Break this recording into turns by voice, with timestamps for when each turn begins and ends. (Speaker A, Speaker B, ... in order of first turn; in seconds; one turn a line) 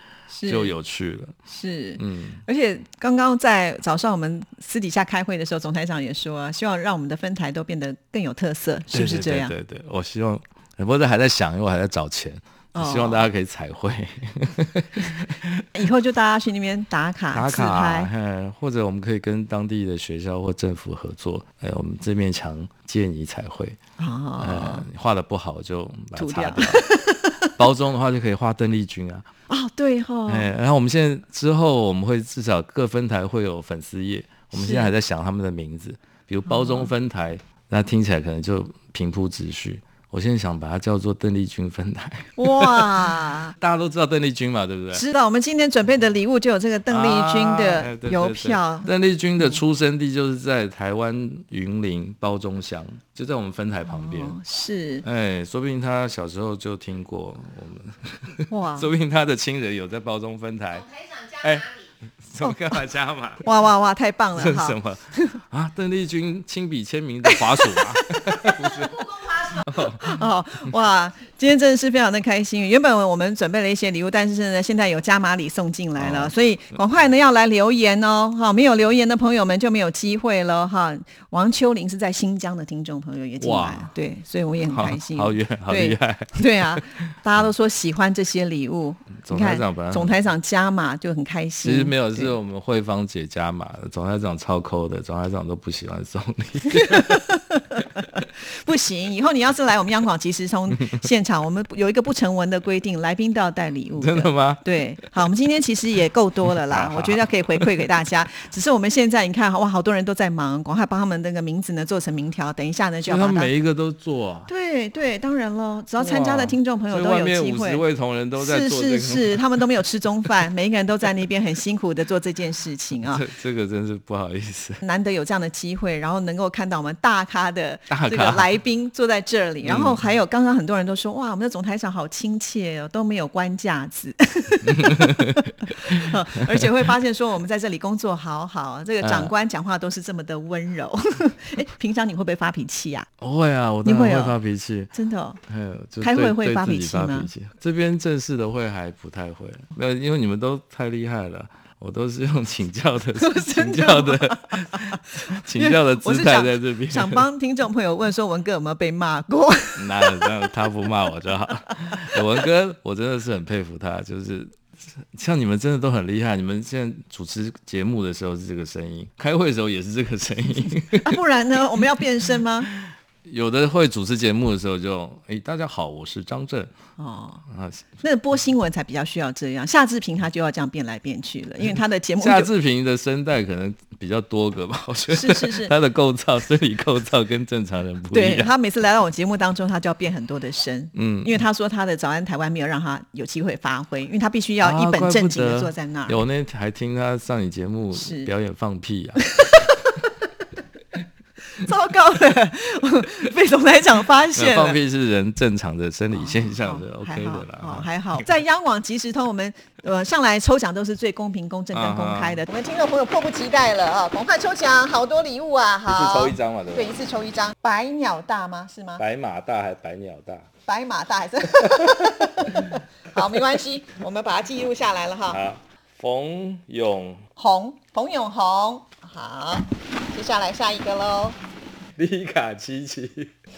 Speaker A: 0.3-0.7
Speaker B: 0.4-1.3
Speaker A: 1.5-9.5
Speaker B: 2.0-2.4
Speaker B: 8.9-15.7
Speaker A: 12.7-13.3
Speaker A: 15.7-18.1
Speaker B: 17.3-23.8
Speaker A: 24.0-24.9
Speaker B: 24.4-26.8
Speaker A: 26.1-27.5
Speaker B: 27.6-29.2
Speaker A: 29.5-30.5
Speaker B: 30.3-45.0
Speaker A: 34.5-34.9
Speaker A: 36.5-36.9
Speaker A: 42.4-43.5
Speaker A: 44.9-48.9
Speaker B: 46.9-54.4
Speaker A: 53.9-55.0
Speaker B: 55.0-63.5
Speaker A: 58.5-58.9
Speaker A: 63.4-65.4
Speaker B: 64.3-70.1
Speaker A: 67.2-69.0
Speaker A: 69.8-92.3
Speaker B: 76.0-76.3
Speaker B: 83.4-83.9
Speaker B: 84.7-86.8
Speaker B: 89.3-90.1
Speaker B: 91.6-97.2
Speaker A: 96.7-113.5
Speaker B: 104.0-104.6
Speaker B: 106.7-107.9
Speaker B: 113.0-114.5
Speaker A: 114.5-117.8
Speaker B: 116.0-119.6
Speaker A: 118.3-123.2
Speaker B: 123.0-124.8
Speaker A: 124.8-143.1
Speaker B: 127.9-128.5
Speaker B: 129.6-130.0
Speaker B: 134.6-135.5
Speaker B: 139.0-139.3
Speaker B: 143.2-144.9
Speaker A: 143.8-144.4
Speaker A: 144.9-145.4
Speaker B: 145.5-157.3
Speaker A: 146.0-147.3
Speaker A: 153.2-160.3
Speaker B: 159.8-164.5
Speaker B: 165.1-171.2
Speaker A: 171.0-172.7
Speaker B: 172.6-176.7
Speaker A: 177.0-177.4
Speaker B: 177.5-177.9
Speaker A: 178.0-182.5
Speaker B: 182.2-188.5
Speaker A: 185.1-185.7
Speaker A: 188.1-196.2
Speaker B: 190.9-191.4
Speaker B: 194.6-199.3
Speaker A: 197.9-198.3
Speaker A: 199.2-200.1
Speaker A: 201.6-204.8
Speaker B: 204.3-208.2
Speaker A: 206.1-219.0
Speaker B: 211.7-212.4
Speaker B: 215.9-216.9
Speaker B: 219.0-220.5
Speaker A: 220.6-225.4
Speaker B: 221.5-222.6
Speaker B: 225.3-227.2
Speaker A: 227.3-231.4
Speaker B: 232.0-233.3